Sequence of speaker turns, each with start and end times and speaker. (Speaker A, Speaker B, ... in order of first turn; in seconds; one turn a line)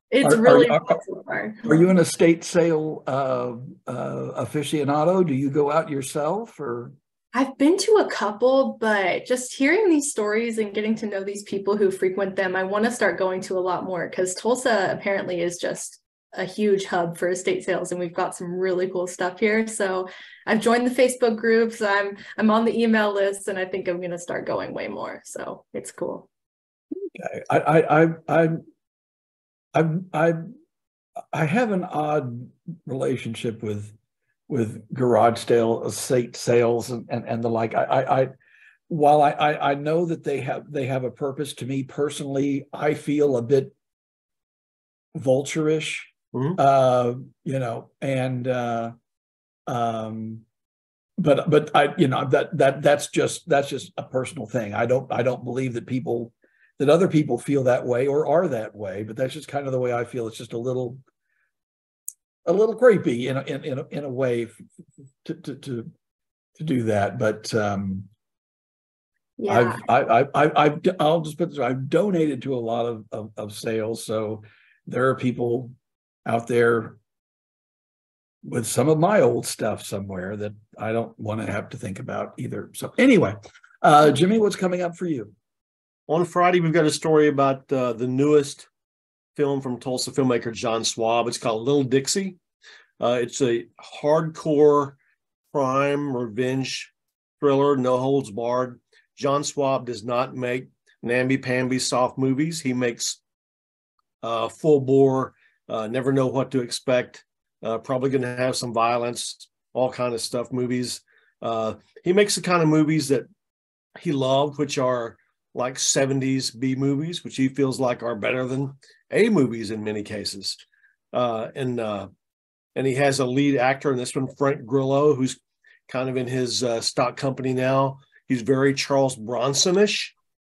Speaker A: 0.1-1.7
Speaker B: 0.2-1.0
Speaker B: 1.6-7.0
Speaker A: 7.3-26.3
Speaker B: 27.1-28.6
Speaker B: 29.7-30.4
Speaker B: 31.3-34.0
Speaker B: 34.5-38.3
Speaker B: 38.9-43.7
Speaker B: 45.1-48.9
Speaker C: 46.3-46.6
Speaker B: 49.7-50.4
Speaker B: 51.2-61.0
Speaker B: 62.5-64.7
Speaker B: 65.2-65.9
Speaker B: 66.6-68.1
Speaker A: 69.4-69.8
Speaker B: 69.5-75.7
Speaker B: 76.3-77.0
Speaker B: 78.5-85.3
Speaker C: 86.1-88.7
Speaker C: 89.4-92.4
Speaker C: 93.0-95.0
Speaker C: 95.5-103.2
Speaker C: 104.2-113.3
Speaker C: 114.0-120.6
Speaker C: 121.1-122.1
Speaker C: 122.8-130.1